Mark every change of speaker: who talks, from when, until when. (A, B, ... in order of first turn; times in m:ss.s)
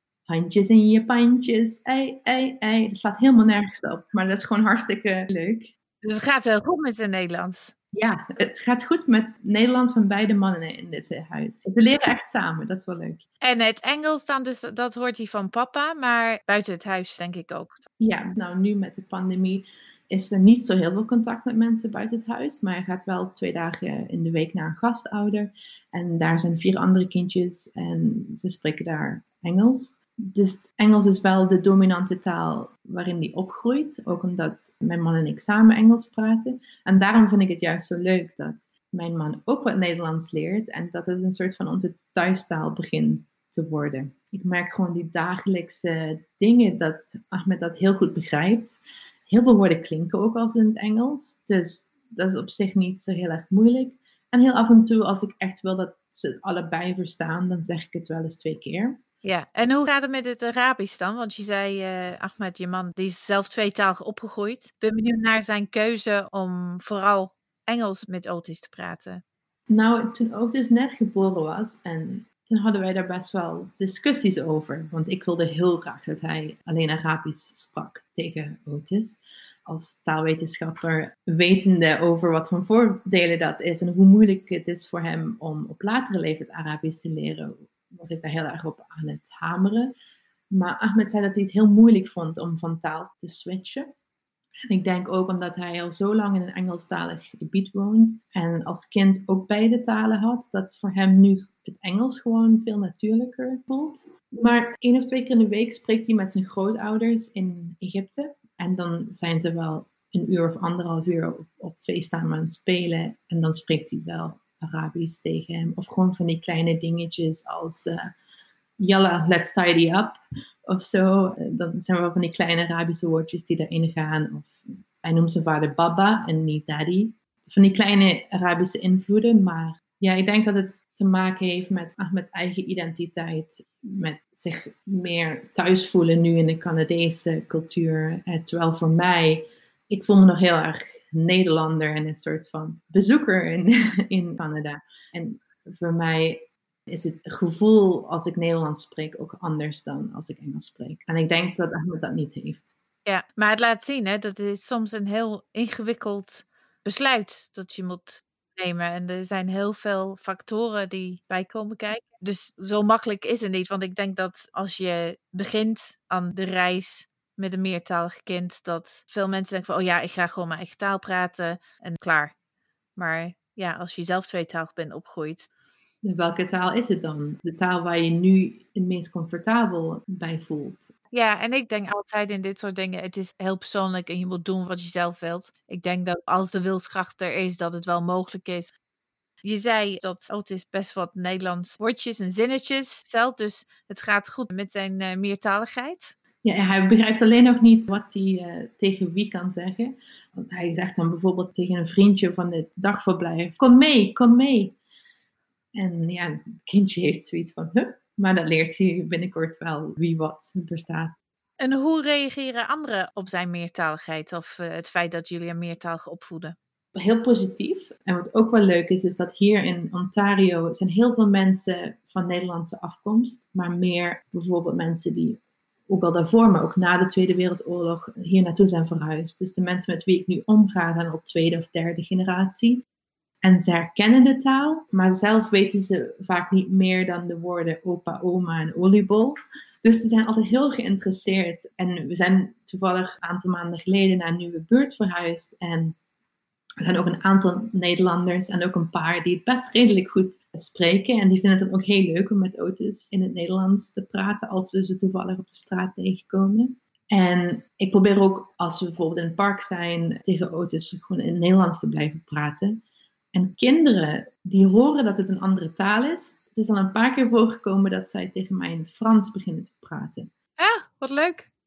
0:00.3-0:05.7 A
0:06.0-0:07.7 B
0:07.9-0:13.2 A
0:13.4-0:17.8 B
0:18.0-0:59.0 A
0:59.2-1:09.2 B
1:09.7-1:29.9 A
1:30.5-1:33.9 A
1:34.7-1:58.1 A
1:58.8-2:32.7 A
2:33.0-2:52.3 B
2:53.0-2:55.5 B
2:56.0-3:00.9 A
3:01.1-3:08.7 B
3:09.4-3:16.1 B
3:16.4-3:24.8 A
3:25.7-3:31.2 A
3:31.6-3:36.6 B
3:36.9-3:52.8 A
3:53.4-4:06.0 A
4:06.8-4:22.8 A
4:23.3-4:30.3 A
4:30.6-4:31.5 B